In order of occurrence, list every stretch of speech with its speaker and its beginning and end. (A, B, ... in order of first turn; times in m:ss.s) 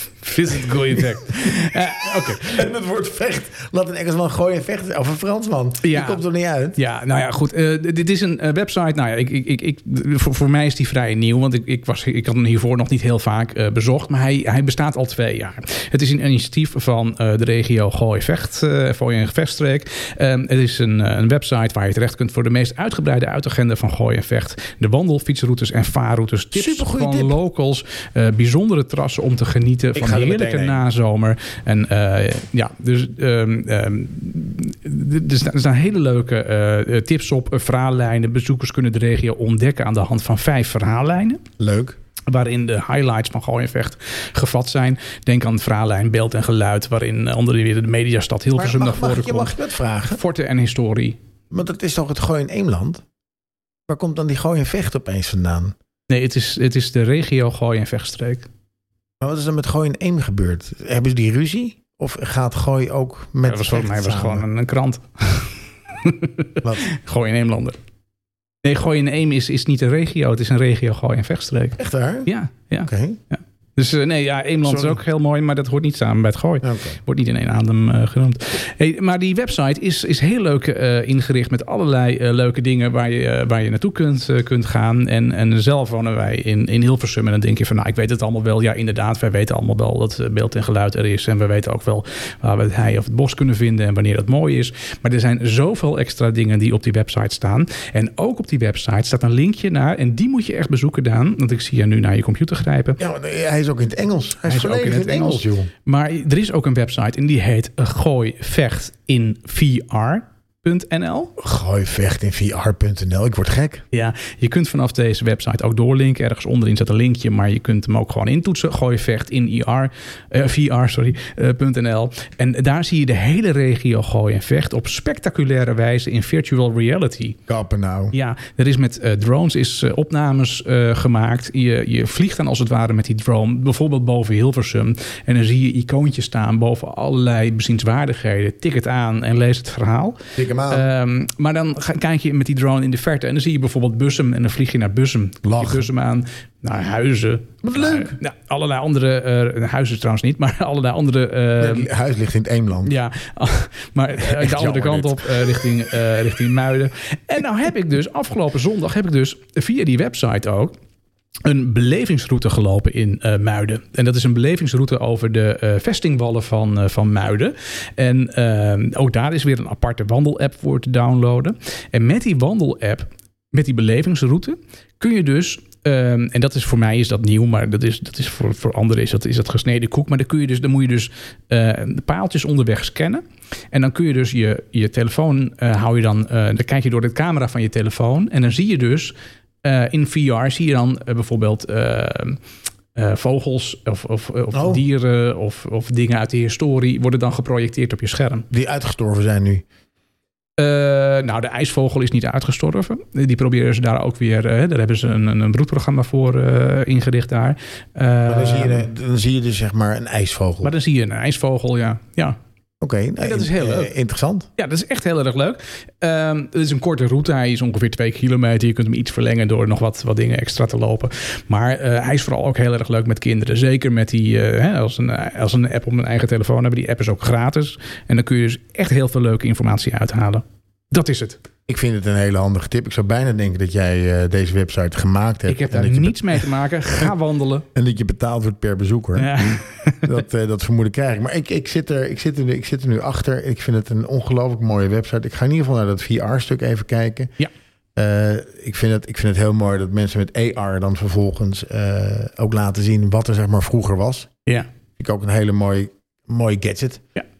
0:00.2-0:02.6 A
0:00.9-0:06.8 B
0:05.8-0:06.2 A
0:06.7-0:41.4 A
0:26.5-0:27.4 B
0:29.9-0:30.8 B
0:41.6-0:42.0 B
0:42.3-0:49.5 A
0:48.5-0:50.2 B
0:50.1-0:51.2 A
0:51.5-0:53.0 B
0:53.9-0:55.7 B
0:56.1-0:58.5 A
0:59.2-1:04.4 B
1:03.4-1:07.8 A
1:08.6-1:43.0 A
1:11.8-1:12.3 B
1:12.8-1:13.2 B
1:14.6-1:15.0 B
1:16.6-1:17.0 B
1:43.0-1:45.7 B
1:44.5-1:51.3 A
1:51.4-1:53.8 B
1:53.9-2:07.4 A
2:07.5-2:08.1 B
2:08.1-2:31.9 A
2:20.3-2:20.9 B
2:25.4-2:25.8 B
2:27.6-2:28.2 B
2:31.6-2:32.9 B
2:32.8-2:40.7 A
2:34.2-2:35.4 B
2:41.4-3:12.4 A
3:12.9-3:18.5 A
3:14.5-3:14.8 B
3:18.5-3:19.6 B
3:20.6-3:28.9 A
3:28.2-3:30.7 B
3:30.6-3:32.4 A
3:32.8-3:34.5 B
3:33.2-3:33.9 A
3:34.6-3:51.4 A
3:51.7-3:57.1 B
3:55.5-3:57.7 A
3:57.7-4:07.3 B
3:59.2-4:00.1 A
4:07.9-4:14.3 B
4:15.0-4:17.0 B